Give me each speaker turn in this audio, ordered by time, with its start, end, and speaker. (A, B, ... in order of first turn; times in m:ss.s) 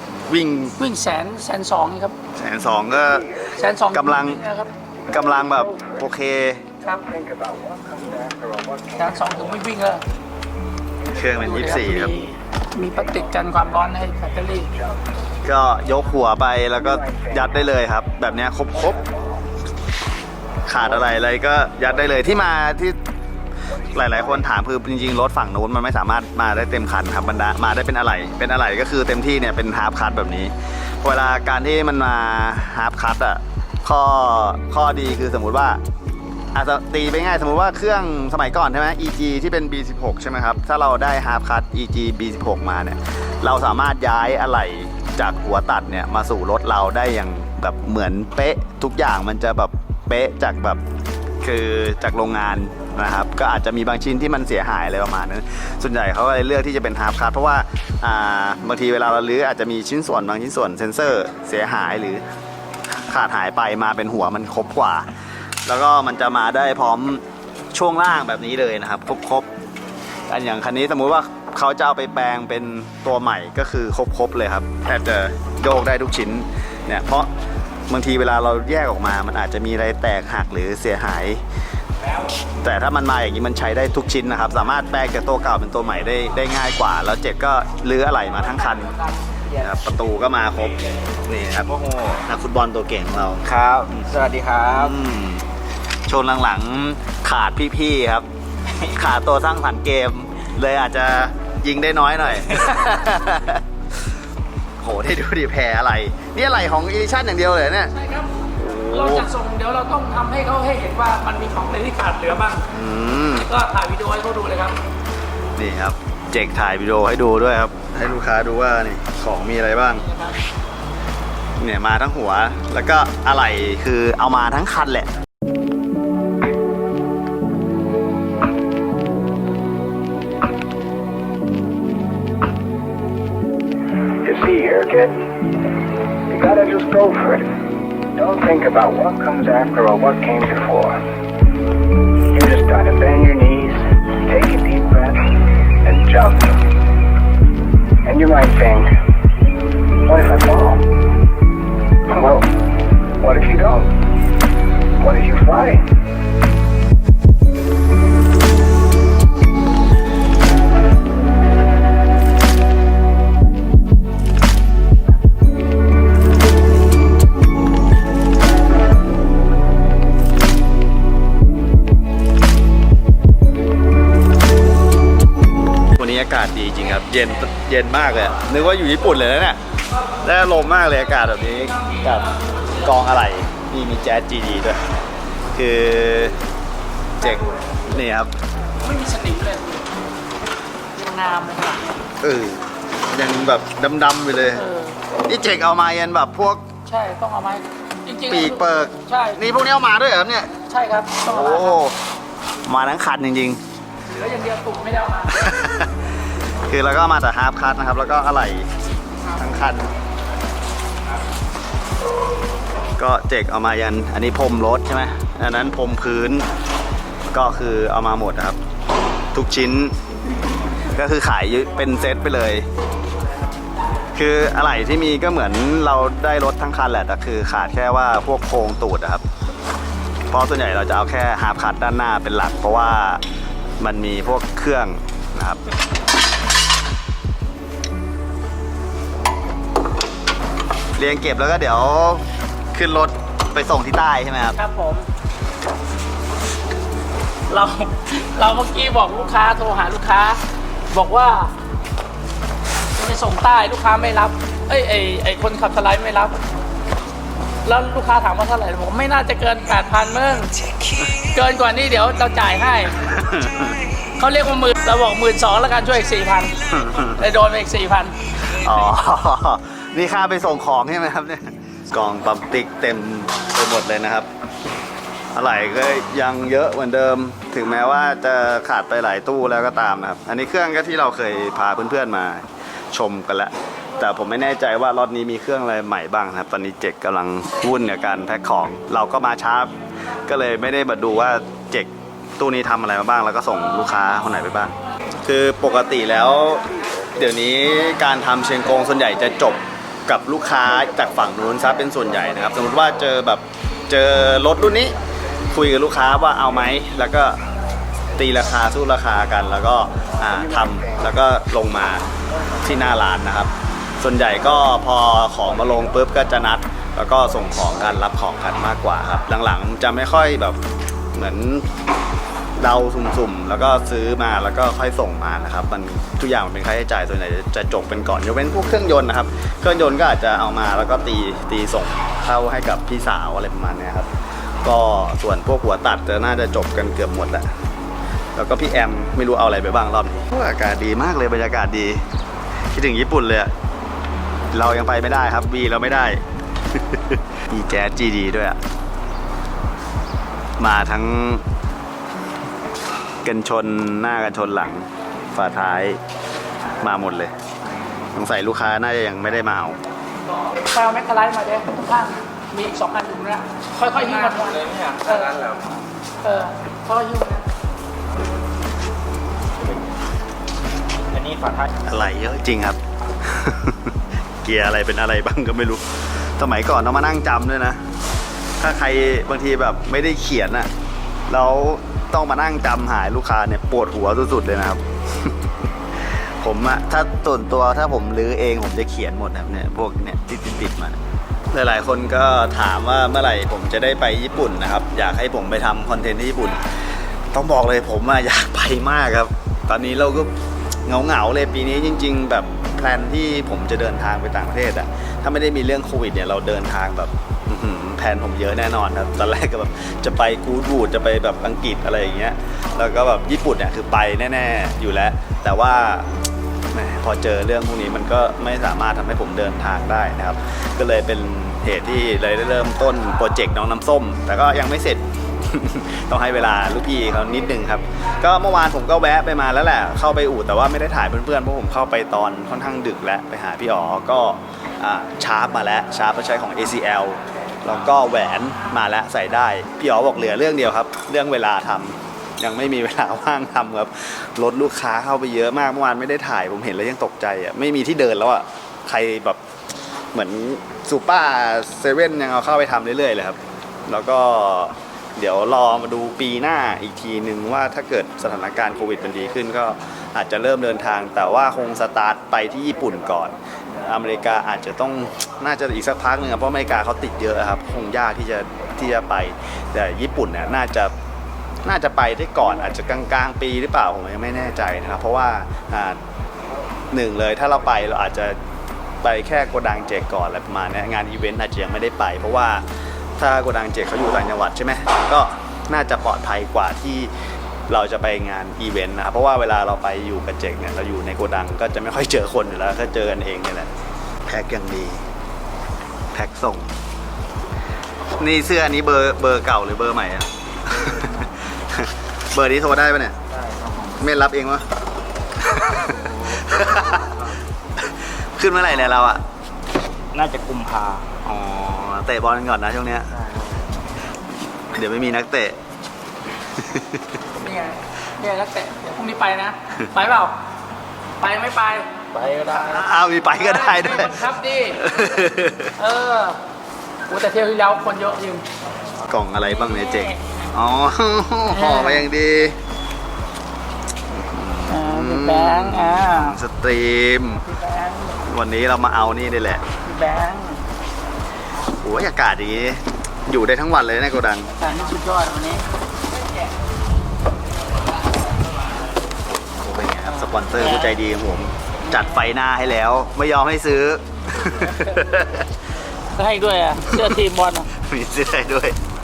0:00.2-0:00.8 A
0:00.8-0:02.2 B
0:02.3-0:03.3 A
0:03.3-0:03.6 C
0:03.5-0:04.7 B
0:03.9-0:04.4 A
0:05.0-0:06.0 C
0:05.1-0:06.6 A
0:06.8-0:09.4 C
0:09.0-0:10.0 B
0:11.1-0:12.1 A
0:11.3-0:12.2 C
0:11.4-0:14.7 B
0:14.7-0:15.0 C
0:15.4-0:19.0 A
0:16.8-0:17.5 C
0:18.9-0:19.4 C
0:20.6-0:23.0 A
0:23.9-0:35.8 A
0:36.5-0:50.8 A
0:51.4-1:02.2 A
1:02.9-1:05.0 A
1:05.6-1:09.5 A
1:10.3-1:17.3 A
1:17.9-1:21.4 A
1:22.6-1:28.9 A
1:28.8-1:29.2 B
1:29.6-1:33.4 A
1:33.4-1:35.0 D
1:34.7-1:35.4 A
1:36.0-1:38.2 A
1:38.8-1:43.6 A
1:44.8-1:47.9 A
1:47.9-1:52.7 B
1:48.6-1:49.3 A
1:52.7-1:53.5 A
1:53.3-1:54.8 B
1:55.6-2:00.0 A
1:59.9-2:00.4 B
2:01.6-2:05.1 A
2:14.2-2:15.3 C
2:16.3-2:17.5 C
2:18.1-2:21.0 C
2:22.3-2:25.2 C
2:25.8-2:26.7 C
2:28.0-2:28.9 C
2:30.0-2:30.9 C
2:32.1-2:32.6 C
2:33.2-2:33.9 C
2:35.0-2:35.9 C
2:56.0-2:59.6 A
3:00.2-3:02.3 A
3:01.6-3:02.9 B
3:02.8-3:04.8 A
3:05.5-3:06.4 A
3:07.2-3:08.3 A
3:07.2-3:07.5 B
3:08.8-3:09.8 B
3:10.9-3:12.0 B
3:12.2-3:14.6 A
3:14.5-3:15.0 B
3:15.3-3:16.7 A
3:16.8-3:19.4 B
3:18.3-3:20.5 A
3:20.6-3:21.8 B
3:21.2-3:22.0 A
3:22.6-3:23.6 A
3:24.1-3:25.5 B
3:25.3-3:25.9 A
3:26.6-3:28.7 A
3:29.3-3:29.9 A
3:33.0-3:36.4 A
3:37.3-3:38.6 A
3:39.3-3:40.0 A
3:40.9-3:42.6 A
3:44.1-3:49.2 A
3:50.3-3:53.2 A
3:53.8-3:55.6 A
4:01.0-4:04.6 A
4:04.6-4:05.1 B
4:07.5-4:11.5 B
4:12.9-4:16.4 B
4:17.6-4:23.0 B
4:23.0-4:23.8 A
4:24.2-4:28.2 B
4:26.7-4:27.2 A
4:28.5-4:34.3 A
4:35.3-4:49.7 A
4:50.2-5:04.9 A
5:05.5-5:07.4 A
5:08.2-5:12.0 A
5:12.6-5:20.6 A
5:21.1-5:21.7 A
5:22.6-5:34.1 A
5:34.6-5:37.5 A
5:38.3-5:42.0 A
5:42.7-5:43.5 A
5:44.5-5:48.6 A
5:50.6-5:51.4 A
5:53.2-5:56.0 A
5:56.8-5:57.3 A
5:58.1-5:59.8 A
6:00.6-6:05.5 B
6:04.3-6:05.7 D
6:06.2-6:07.4 B
6:11.1-6:11.7 D
6:11.8-6:17.8 A
6:18.6-6:20.7 A
6:21.3-6:25.5 A
6:26.0-6:31.0 A
6:31.5-6:36.7 A
6:37.3-6:40.3 A
6:40.8-6:56.1 A
6:56.7-7:29.4 A
7:30.1-7:50.9 A
7:51.6-7:56.0 A
7:56.9-7:58.4 A
7:59.0-8:02.6 A
8:03.2-8:07.1 A
8:07.7-8:13.7 A
8:14.2-8:15.0 A
8:16.1-8:16.7 A
8:18.2-8:23.2 A
8:23.3-8:24.0 D
8:24.0-8:24.6 A
8:25.4-8:29.2 A
8:30.1-8:31.1 D
8:31.2-8:33.1 A
8:34.7-8:35.6 A
8:36.6-8:37.0 A
8:37.4-8:40.4 B
8:41.2-8:44.9 B
8:42.5-8:45.7 A
8:45.8-8:46.4 B
8:47.1-8:48.4 B
8:49.0-8:52.6 A
8:49.4-8:50.2 B
8:51.5-8:52.0 B
8:54.1-8:57.4 A
8:54.7-8:56.4 B
8:57.3-8:58.2 B
8:58.2-8:59.6 A
8:59.8-9:00.6 B
9:01.8-9:04.5 A
9:04.6-9:05.7 B
9:09.3-9:15.5 A
9:10.1-9:11.0 B
9:11.9-9:12.2 B
9:14.5-9:15.1 B
9:16.2-9:17.7 B
9:16.9-9:17.2 A
9:17.8-9:18.8 A